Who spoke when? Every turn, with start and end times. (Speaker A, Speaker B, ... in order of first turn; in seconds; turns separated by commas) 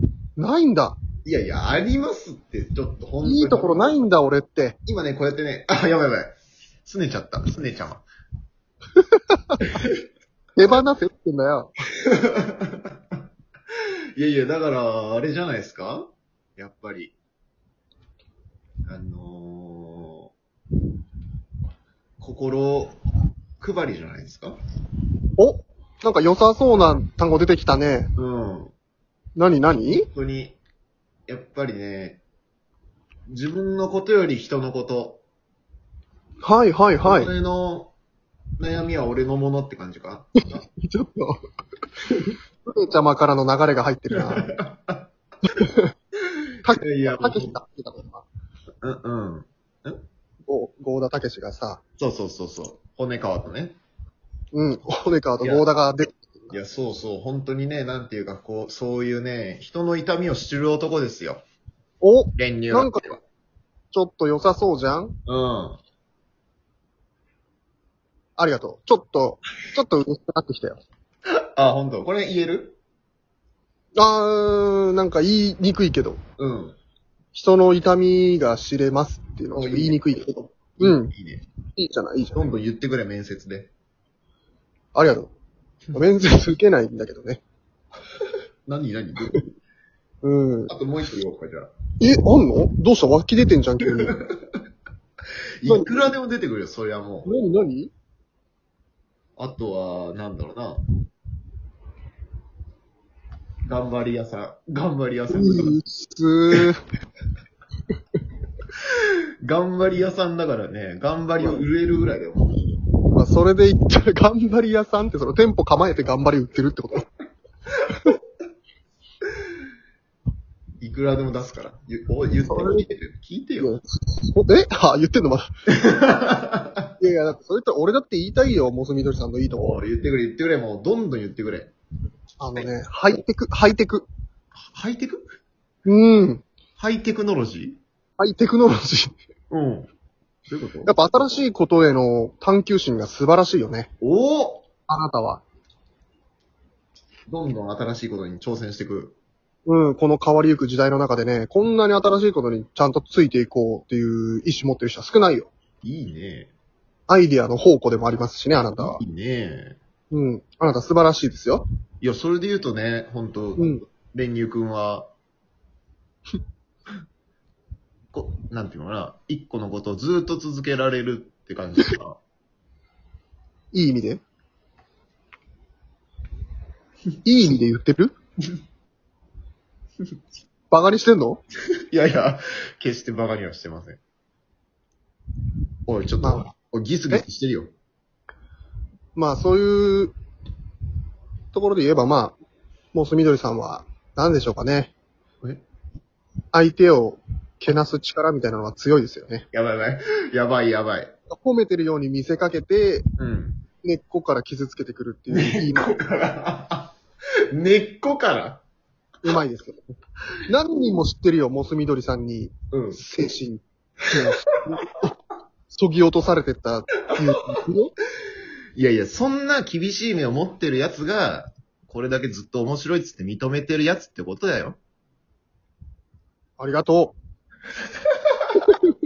Speaker A: 0.4-1.0, Speaker B: 1.2-4.0, Speaker A: 3.2-4.8, Speaker B: 4.8-8.0, Speaker B: 9.7-9.9, Speaker A: 10.6-11.7, Speaker B: 12.0-12.9, Speaker B: 14.2-17.1, Speaker B: 18.9-20.3, Speaker B: 22.2-23.0, Speaker B: 23.6-24.6, Speaker A: 25.4-28.1, Speaker B: 28.1-28.7, Speaker A: 29.4-30.1, Speaker B: 30.1-30.6, Speaker B: 31.3-32.2, Speaker B: 33.3-35.2, Speaker A: 36.4-37.3, Speaker B: 37.0-37.9, Speaker B: 38.6-40.3, Speaker A: 40.5-41.4, Speaker A: 42.6-44.5, Speaker B: 44.1-45.1, Speaker A: 45.6-45.9, Speaker A: 46.6-48.2, Speaker B: 46.7-47.6, Speaker B: 48.8-50.0, Speaker A: 50.5-51.8, Speaker B: 52.0-53.8, Speaker A: 54.5-56.5, Speaker B: 55.4-55.6, Speaker B: 56.5-61.4, Speaker A: 62.0-63.0, Speaker B: 62.4-63.2, Speaker A: 63.9-65.2, Speaker B: 65.3-65.8, Speaker A: 68.4-70.8, Speaker B: 71.5-72.8, Speaker A: 74.0-76.2, Speaker B: 76.4-76.8, Speaker A: 77.3-81.1, Speaker B: 79.5-80.0, Speaker B: 80.8-81.4, Speaker A: 81.8-82.5, Speaker B: 82.3-83.7, Speaker A: 84.9-85.3, Speaker A: 85.9-87.4, Speaker B: 88.7-89.4, Speaker A: 90.2-90.7, Speaker B: 90.7-91.7, Speaker A: 92.0-94.2, Speaker B: 95.6-97.3, Speaker A: 95.7-96.1, Speaker A: 97.2-97.9, Speaker B: 99.4-100.8, Speaker B: 103.7-105.8, Speaker A: 105.3-106.8, Speaker B: 109.4-112.7, Speaker A: 111.4-111.6, Speaker A: 113.1-117.1, Speaker B: 120.8-123.8, Speaker A: 122.5-122.9, Speaker A: 123.6-125.5, Speaker B: 125.8-126.9, Speaker A: 127.0-129.8, Speaker B: 129.5-131.7, Speaker A: 132.4-134.1, Speaker B: 134.7-135.2, Speaker A: 135.8-136.4, Speaker B: 136.8-137.8, Speaker A: 138.2-139.1, Speaker B: 139.5-139.9, Speaker B: 140.5-140.9, Speaker A: 140.8-143.9, Speaker B: 144.0-144.6, Speaker A: 144.9-145.4, Speaker B: 147.3-149.2, Speaker A: 149.7-155.5, Speaker B: 155.8-156.5, Speaker A: 157.1-159.0, Speaker B: 158.8-159.8, Speaker A: 160.1-161.6, Speaker B: 162.0-165.1, Speaker A: 163.6-163.8, Speaker B: 168.1-172.2, Speaker A: 173.7-174.2, Speaker A: 177.2-178.1, Speaker A: 180.7-181.4, Speaker B: 181.9-184.0, Speaker B: 185.9-187.7, Speaker A: 186.2-186.5, Speaker A: 189.1-190.1, Speaker A: 191.5-192.3, Speaker A: 192.9-194.9, Speaker A: 196.5-199.4, Speaker B: 199.5-201.1, Speaker A: 201.3-203.1, Speaker B: 203.2-203.6, Speaker A: 203.8-206.0, Speaker B: 205.3-206.9, Speaker B: 207.5-208.6, Speaker A: 209.2-209.8, Speaker A: 210.5-215.1, Speaker B: 212.7-213.0, Speaker A: 215.7-217.9, Speaker B: 218.8-224.8, Speaker A: 226.6-227.2